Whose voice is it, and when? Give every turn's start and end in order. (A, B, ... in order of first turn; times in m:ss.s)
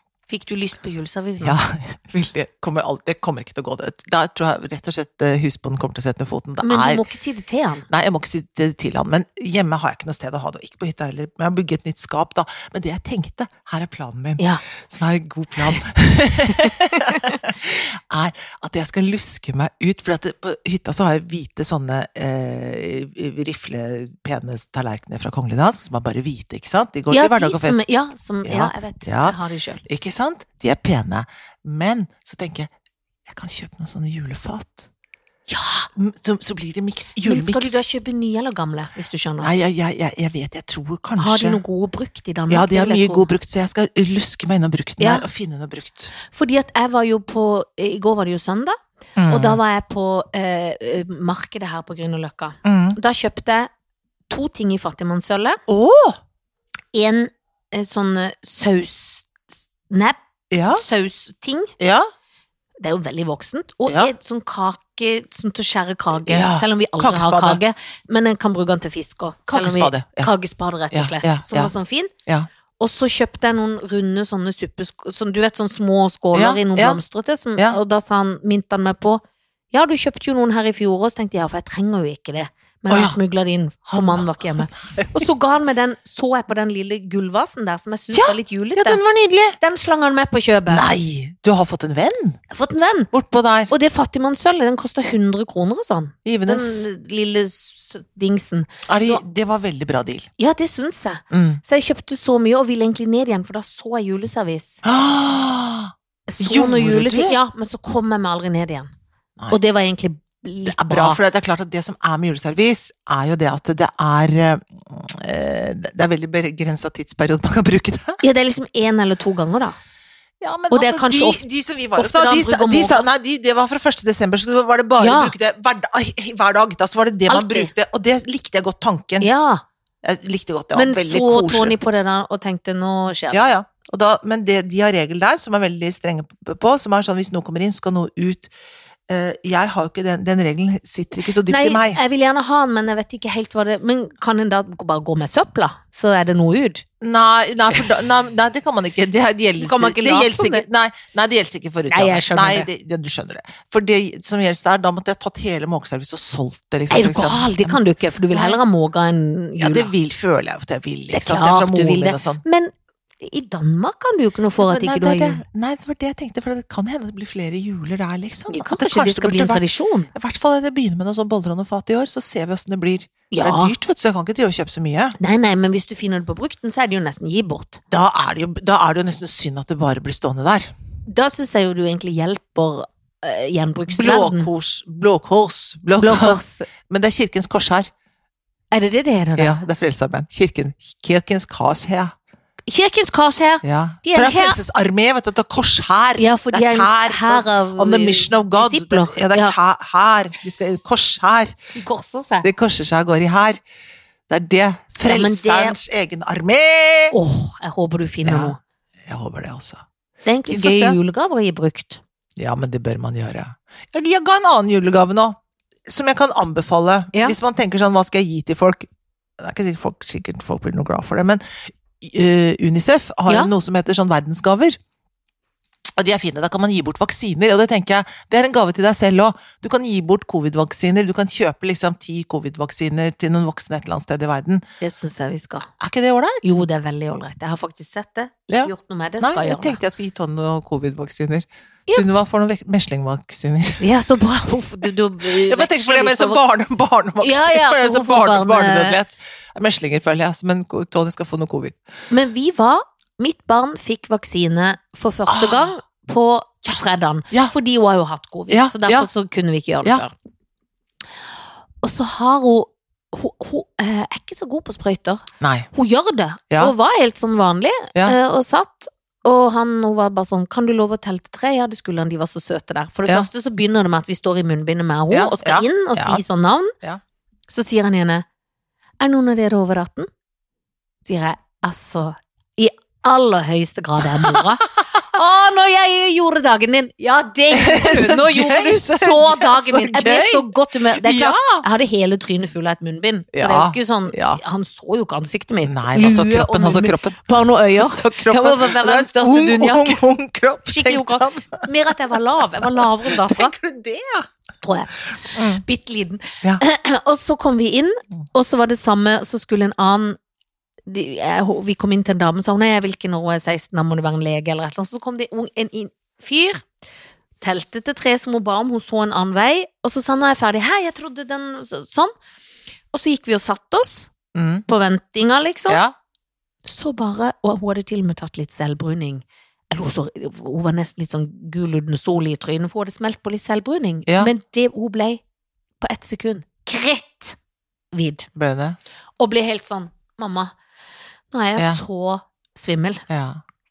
0:00.3-0:01.6 A
0:01.4-0:07.0 B
0:06.6-0:07.8 A
0:07.9-0:27.8 B
0:16.6-0:17.3 A
0:27.1-0:29.8 A
0:28.4-0:32.7 B
0:33.2-0:34.9 B
0:35.5-0:35.9 A
0:35.9-0:37.8 B
0:37.2-0:39.5 A
0:39.4-0:41.6 B
0:41.2-0:43.3 A
0:42.5-0:46.1 B
0:45.0-0:45.2 A
0:46.2-0:53.7 A
0:49.2-0:49.6 B
0:52.6-0:53.0 B
0:54.3-0:55.6 A
0:55.7-0:56.2 B
0:56.9-1:01.7 A
1:00.5-1:00.8 B
1:01.8-1:02.1 B
1:02.8-1:12.1 A
1:03.8-1:04.1 B
1:06.1-1:07.6 B
1:09.5-1:10.3 B
1:10.9-1:11.7 B
1:12.8-1:29.0 A
1:16.3-1:17.0 B
1:22.9-1:23.2 B
1:23.9-1:25.3 B
1:28.1-1:29.6 B
1:29.6-1:30.9 A
1:30.7-1:32.4 B
1:32.5-1:33.1 A
1:33.1-1:33.7 B
1:33.7-1:39.2 A
1:36.2-1:36.8 B
1:38.9-1:40.3 B
1:40.4-1:44.8 A
1:41.3-1:41.6 B
1:44.8-1:47.4 B
1:46.3-1:48.9 A
1:49.5-1:51.2 A
1:50.6-1:58.2 B
1:58.2-1:59.8 A
2:00.4-2:09.3 B
2:00.7-2:01.4 A
2:02.0-2:03.1 A
2:05.0-2:05.3 A
2:07.3-2:07.7 A
2:09.2-2:09.6 A
2:10.0-2:11.8 B
2:10.7-2:13.5 A
2:13.3-2:18.5 B
2:19.1-2:22.0 B
2:21.5-2:26.8 A
2:27.0-2:37.8 B
2:29.6-2:30.6 A
2:31.9-2:32.7 A
2:36.9-2:39.9 A
2:38.3-2:38.6 B
2:39.6-2:42.4 B
2:41.1-2:45.4 A
2:44.6-2:55.2 B
2:48.5-2:50.1 A
2:53.3-2:53.7 A
2:55.2-2:57.8 A
2:57.9-3:00.7 B
3:01.1-3:04.5 A
3:03.9-3:07.9 B
3:06.0-3:06.7 A
3:08.7-3:09.6 A
3:09.4-3:12.1 B
3:12.7-3:14.6 A
3:13.6-3:21.5 B
3:16.2-3:19.5 A
3:21.7-3:22.5 A
3:22.4-3:23.6 B
3:24.3-3:27.1 B
3:25.0-3:25.8 A
3:27.1-3:28.6 A
3:28.2-3:29.8 B
3:30.2-3:32.0 A
3:30.5-3:31.0 B
3:32.4-3:38.9 B
3:39.4-3:44.8 B
3:45.9-3:54.6 B
3:54.8-3:55.7 A
3:55.8-3:56.4 B
3:56.4-3:59.8 A
3:58.5-4:03.8 B
4:03.8-4:06.4 A
4:05.2-4:11.8 B
4:07.2-4:09.0 A
4:12.1-4:20.1 A
4:15.3-4:15.7 B
4:18.5-4:19.1 B
4:21.8-4:36.7 A
4:25.4-4:25.7 B
4:35.1-4:36.2 B
4:37.5-4:38.2 A
4:39.0-4:40.1 A
4:41.0-5:00.0 A
4:47.5-4:51.6 B
4:53.3-4:54.4 B
4:55.6-5:01.7 B
5:00.7-5:03.5 A
5:02.6-5:04.3 B
5:04.6-5:10.2 A
5:05.2-5:05.6 B
5:10.9-5:16.6 A
5:17.4-5:22.1 A
5:22.9-5:24.1 A
5:24.3-5:24.6 B
5:24.7-5:25.8 A
5:25.7-5:25.9 B
5:26.6-5:35.2 A
5:34.0-5:34.3 B
5:35.8-5:37.4 A
5:37.9-5:38.3 A
5:38.3-5:38.8 B
5:39.2-5:40.5 A
5:41.3-5:43.0 A
5:41.6-5:41.8 B
5:43.1-5:43.4 B